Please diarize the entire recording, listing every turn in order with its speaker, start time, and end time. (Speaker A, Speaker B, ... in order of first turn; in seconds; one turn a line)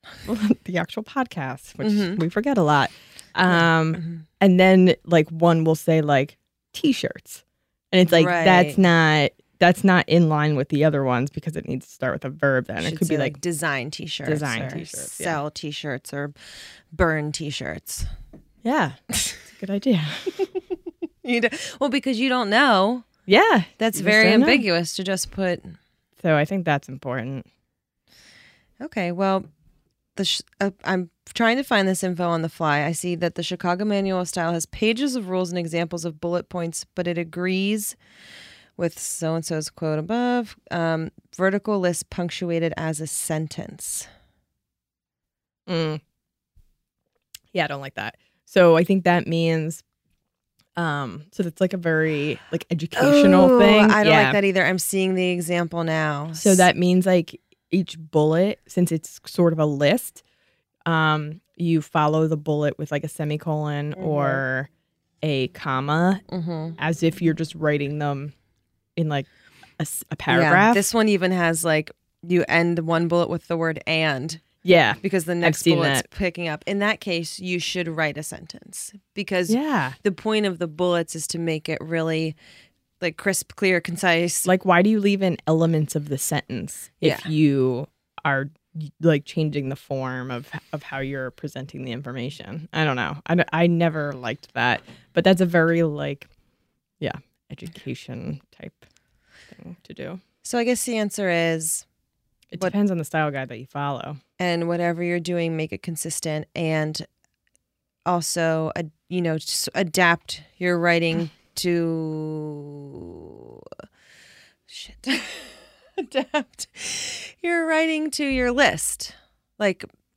Speaker A: 0.2-13.4
Speaker B: 1.8-2.2
Speaker B: 3.5-4.2
Speaker B: 8.1-8.8
Speaker B: 12.8-16.4
Speaker A: 14.2-15.4
Speaker B: 16.9-18.1
Speaker A: 18.6-20.4
Speaker B: 21.2-23.1
Speaker A: 23.3-24.6
Speaker B: 23.8-25.8
Speaker A: 26.2-27.5
Speaker B: 28.8-29.5
Speaker B: 30.2-38.0
Speaker B: 38.8-44.1
Speaker A: 45.7-46.0
Speaker A: 47.5-49.8
Speaker A: 50.8-54.4
Speaker B: 53.0-56.6
Speaker A: 56.4-60.2
Speaker A: 60.9-64.7
Speaker B: 64.0-64.4
Speaker A: 65.2-66.2
Speaker B: 66.3-66.8
Speaker A: 66.8-68.3
Speaker A: 69.0-70.8
Speaker B: 70.3-74.5
Speaker A: 74.6-76.1
Speaker B: 75.0-82.4
Speaker A: 79.5-80.0
Speaker B: 83.0-84.5
Speaker A: 84.5-96.3
Speaker B: 87.0-87.3
Speaker A: 97.0-98.8
Speaker A: 99.5-100.2
Speaker B: 100.4-101.8
Speaker A: 102.5-104.2
Speaker B: 104.4-107.1
Speaker B: 108.0-113.7
Speaker B: 114.7-119.9